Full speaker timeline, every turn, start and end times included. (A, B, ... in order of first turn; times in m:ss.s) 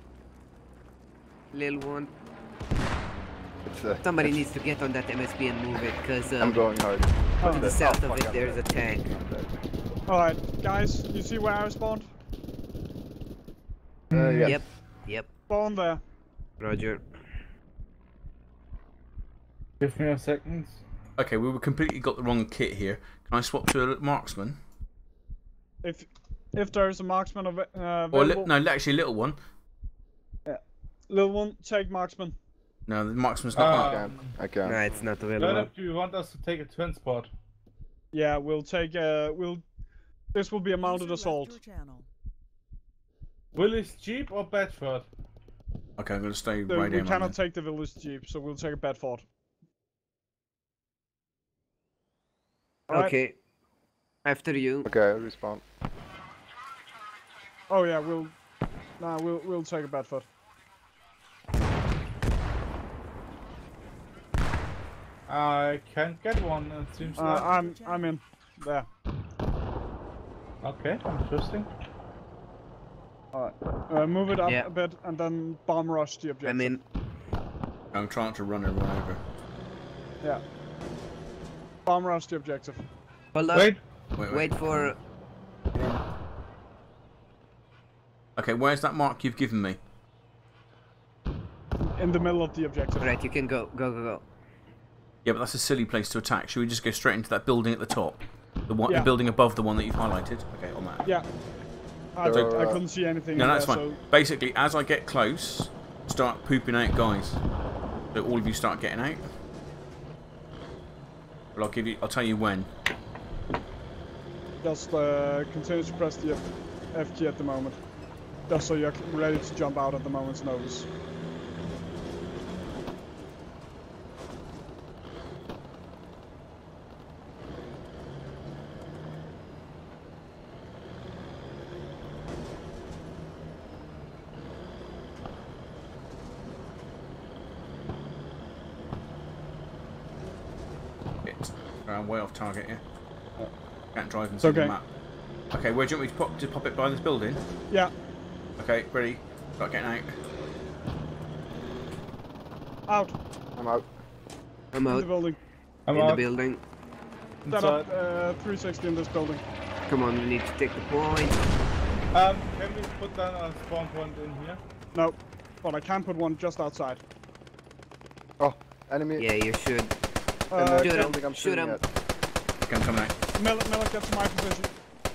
0:01.5-0:02.1 A
0:03.6-0:04.4 B
0:04.0-0:06.6 A
0:06.4-0:09.5 B
0:07.4-0:07.7 C
0:07.4-0:09.1 A
0:10.1-0:12.1 C
0:14.1-0:14.6 D
0:14.1-0:14.7 B
0:14.5-0:15.3 A
0:15.5-0:16.0 C
0:16.6-0:17.0 A
0:19.8-0:20.8 D
0:21.2-0:24.6 E
0:25.8-0:28.5 C
0:28.1-0:29.4 E
0:30.5-0:32.4 C
0:32.9-0:34.1 E
0:33.5-0:34.4 D
0:33.7-0:34.8 B
0:34.6-0:35.7 A
0:35.4-0:37.3 D
0:38.1-0:39.6 C
0:40.3-0:41.6 C
0:40.8-0:42.1 F
0:43.6-0:45.1 D
0:46.0-0:47.4 E
0:46.7-0:49.2 C
0:52.9-0:53.2 C
0:52.9-0:53.4 A
0:54.2-0:54.9 A
0:54.8-0:55.6 B
0:57.7-0:58.4 C
0:59.0-1:00.3 C
1:05.3-1:07.5 D
1:07.0-1:08.2 F
1:07.2-1:08.9 C
1:10.6-1:11.7 D
1:13.3-1:16.8 C
1:16.4-1:16.8 A
1:17.9-1:19.2 E
1:21.9-1:22.8 C
1:23.3-1:23.8 A
1:23.5-1:23.8 D
1:24.2-1:24.9 E
1:24.3-1:25.0 A
1:28.4-1:29.8 E
1:31.8-1:33.1 C
1:33.0-1:34.2 A
1:35.2-1:41.0 E
1:42.2-1:44.0 C
1:42.2-1:42.8 B
1:43.4-1:47.4 E
1:48.1-1:49.3 E
1:51.6-1:52.7 E
1:54.6-1:57.8 C
1:58.5-2:00.9 C
2:21.2-2:22.8 E
2:24.0-2:24.9 E
2:24.4-2:24.8 C
2:25.5-2:27.4 E
2:28.6-2:30.2 E
2:32.9-2:33.2 C
2:33.6-2:33.9 B
2:34.7-2:35.1 A
2:34.9-2:35.4 C
2:35.9-2:36.3 D
2:35.9-2:36.6 A
2:37.4-2:37.9 D
2:37.5-2:39.4 C
2:39.9-2:41.4 A
2:42.1-2:44.6 D
2:44.9-2:47.0 C
2:48.4-2:49.3 B
2:49.2-2:49.9 A
2:50.5-2:51.2 C
2:50.5-2:51.8 B
2:50.8-2:51.8 A
2:52.7-2:53.1 E
2:53.4-2:54.7 C